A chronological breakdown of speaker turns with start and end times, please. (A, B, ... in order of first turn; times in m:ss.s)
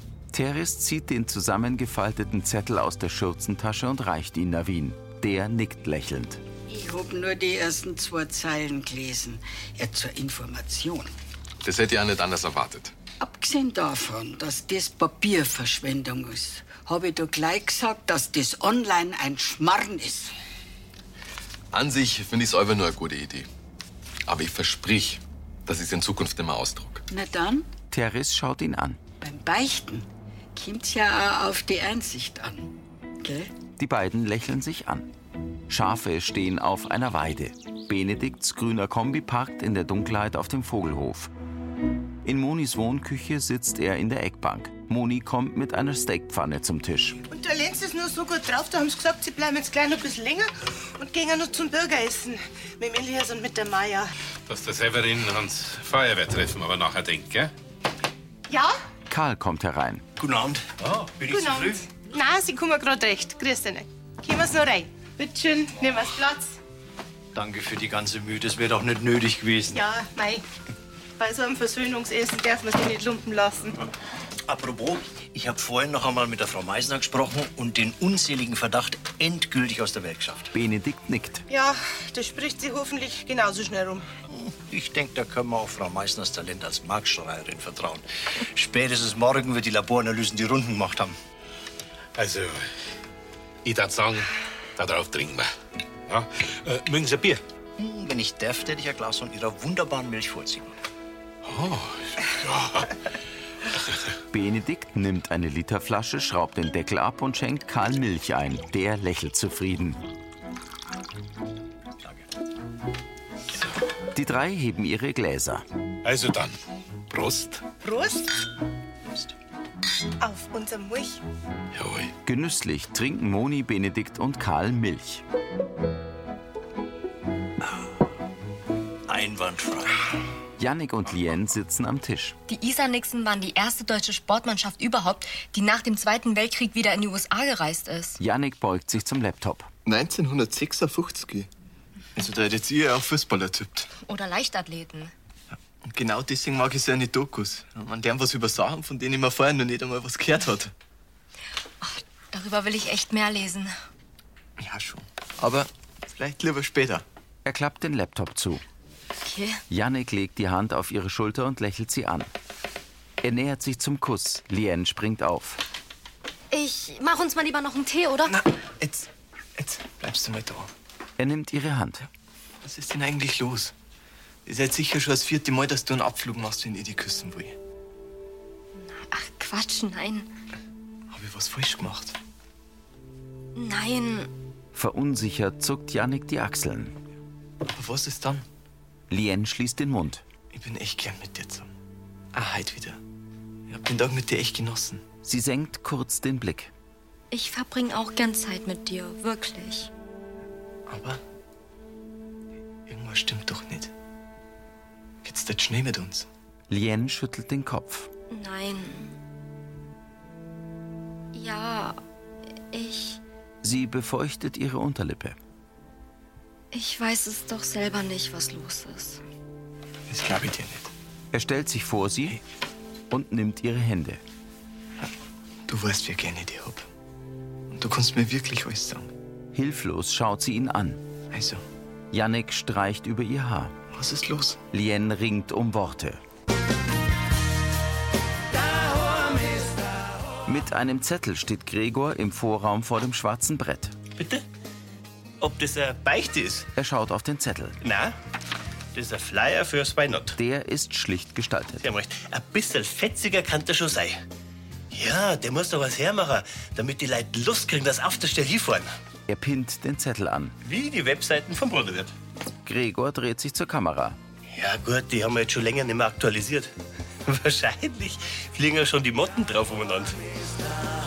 0:00.3-0:06.4 A
0:06.6-0:11.1 B
0:11.6-0:12.9 C
0:13.2-0:20.3 B
0:21.7-0:23.5 C
0:24.2-0:27.0 C
0:27.1-0:27.7 B
0:27.9-0:29.0 A
0:29.2-0:33.5 B
0:33.8-0:35.1 A
0:35.7-0:41.3 A
0:42.2-0:47.2 A
0:47.3-0:54.1 D
0:54.5-0:57.5 E
0:58.5-0:58.7 D
0:59.1-1:00.0 A
1:00.2-1:01.8 F
1:01.3-1:06.6 D
1:07.4-1:09.7 F
1:09.7-1:10.4 D
1:11.2-1:13.8 D
1:14.4-1:20.5 F
1:20.5-1:21.4 A
1:21.5-1:24.0 D
1:24.3-1:31.2 F
1:32.2-1:32.7 E
1:33.6-1:35.5 E
1:36.1-1:37.4 E
1:37.8-1:40.7 F
1:41.4-1:42.9 E
1:44.3-1:50.0 A
1:54.1-1:55.6 A
1:56.0-1:56.6 E
1:57.1-1:57.6 E
1:57.8-1:58.3 D
2:00.2-2:01.2 D
2:01.7-2:02.1 E
2:02.2-2:05.2 A
2:09.1-2:10.0 F
2:10.6-2:12.4 A
2:12.5-2:18.2 G
2:18.2-2:19.7 A
2:19.8-2:21.5 H
2:22.1-2:23.9 H
2:24.0-2:25.1 G
2:25.5-2:30.7 H
2:31.8-2:33.7 G
2:34.6-2:37.0 H
2:37.4-2:38.6 A
2:39.2-2:39.6 G
2:39.7-2:42.3 A
2:43.2-2:45.6 A
2:46.5-2:48.4 G
2:48.3-2:50.7 H
2:51.2-2:52.0 A
2:52.6-2:53.7 H
2:54.4-2:57.6 H
2:58.8-3:00.3 G
3:01.1-3:02.2 H
3:03.5-3:04.3 G
3:04.7-3:06.9 A
3:07.7-3:08.4 H
3:09.1-3:10.2 A
3:10.5-3:11.7 H
3:12.3-3:13.0 H
3:13.7-3:15.0 H
3:15.2-3:16.7 A
3:17.3-3:19.9 G
3:20.9-3:21.2 H
3:22.9-3:23.9 H
3:25.2-3:26.3 H
3:26.7-3:28.1 A
3:28.3-3:29.2 G
3:31.3-3:32.0 G
3:32.7-3:33.2 G
3:33.6-3:35.4 A
3:36.7-3:39.2 G
3:40.1-3:40.9 H
3:41.3-3:42.4 A
3:43.1-3:44.2 A
3:45.7-3:46.8 H
3:47.7-3:49.1 H
3:49.5-3:51.0 A
3:51.3-3:51.6 H
3:52.1-3:53.8 A
3:53.9-3:54.6 H
3:54.7-3:56.2 A
4:00.4-4:04.0 A
4:04.2-4:04.4 I
4:05.4-4:06.7 I
4:06.7-4:07.8 A
4:07.8-4:08.1 I
4:08.9-4:10.3 I
4:10.3-4:11.8 A
4:11.8-4:14.2 I
4:14.9-4:18.9 I
4:19.3-4:20.6 A
4:20.6-4:22.1 I
4:22.6-4:24.2 A
4:24.5-4:26.7 I
4:27.3-4:30.1 I